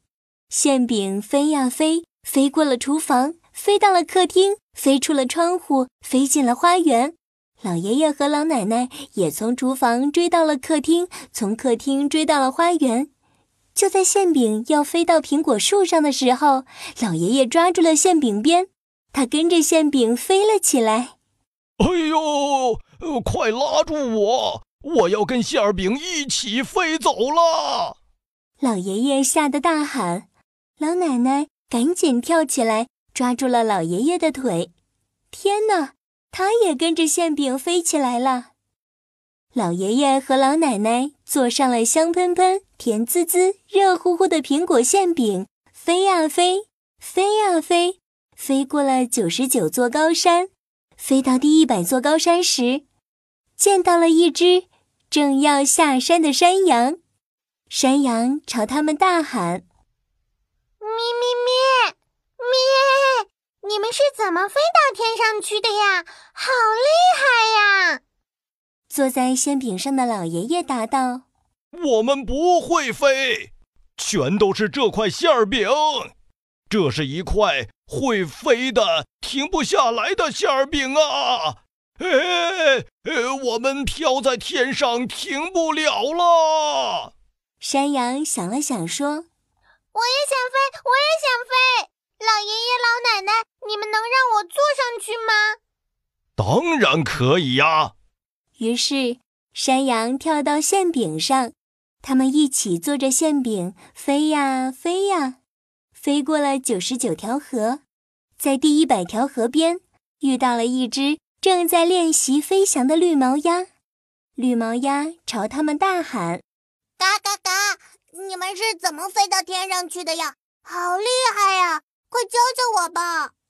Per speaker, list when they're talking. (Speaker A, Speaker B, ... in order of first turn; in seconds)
Speaker A: 0.5-13.1, 13.8-21.1, 28.6-30.3, 30.8-34.7, 35.3-38.5, 39.5-52.8, 53.6-57.0, 57.7-59.6, 68.9-71.2, 87.6-89.3, 98.6-105.4, 106.0-107.8, 108.4-113.7, 114.4-116.4
Speaker B: 21.8-27.9, 71.7-76.1, 76.7-87.1, 96.4-97.9
Speaker C: 60.8-68.0, 89.9-95.6, 117.0-123.3